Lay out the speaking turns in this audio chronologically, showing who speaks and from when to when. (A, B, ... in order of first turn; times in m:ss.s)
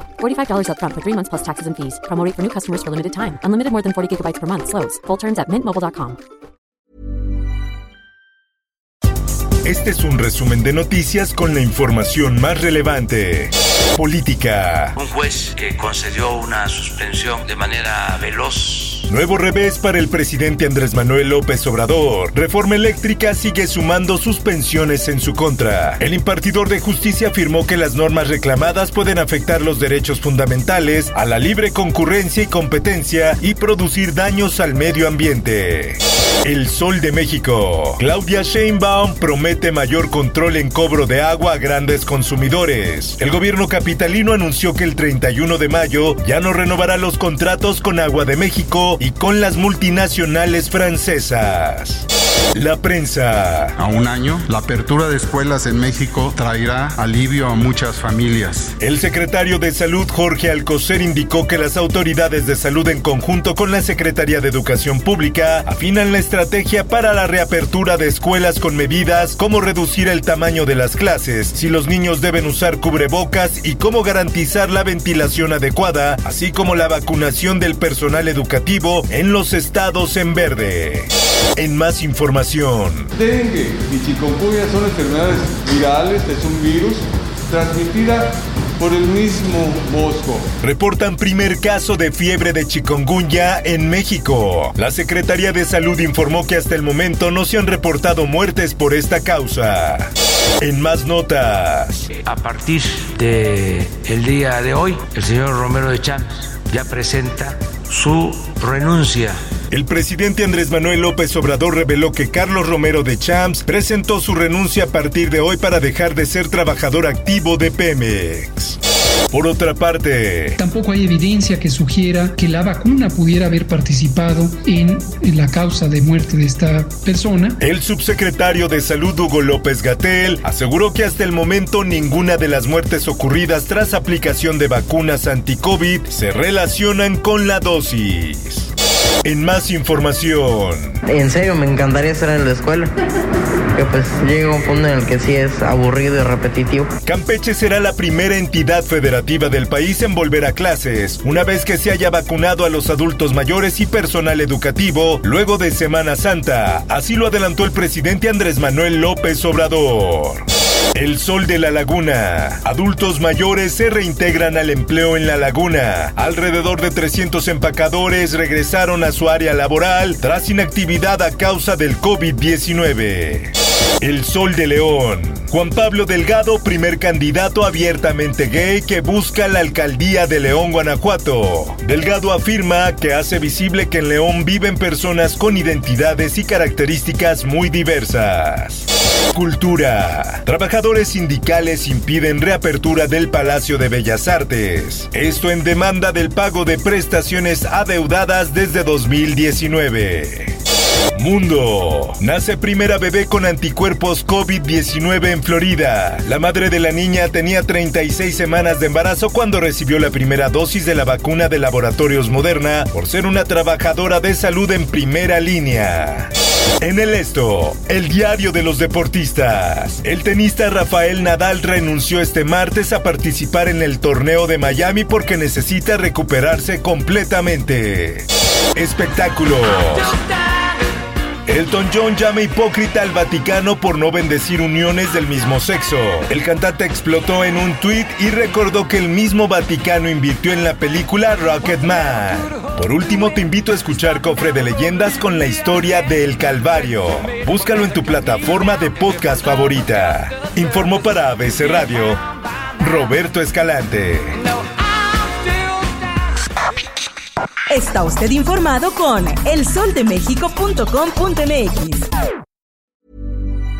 0:00.2-0:06.2 A
0:09.6-0:15.0 B
0:15.0-0:19.1 C
0:19.1-0:53.7 B
0:53.8-0:58.7 D
0:58.8-1:23.1 B
1:23.1-1:30.4 E
1:30.6-1:42.0 B
1:42.1-1:49.4 C
1:49.7-1:58.8 B
1:59.3-2:00.6 B
2:00.6-2:07.6 F
2:07.6-2:18.7 B
2:19.2-2:21.0 B
2:21.0-2:22.9 G
2:23.7-2:26.9 G
2:27.0-3:20.6 B
3:21.1-3:50.2 B
3:51.5-4:12.2 B
4:12.8-4:14.4 B
4:17.7-4:22.1 H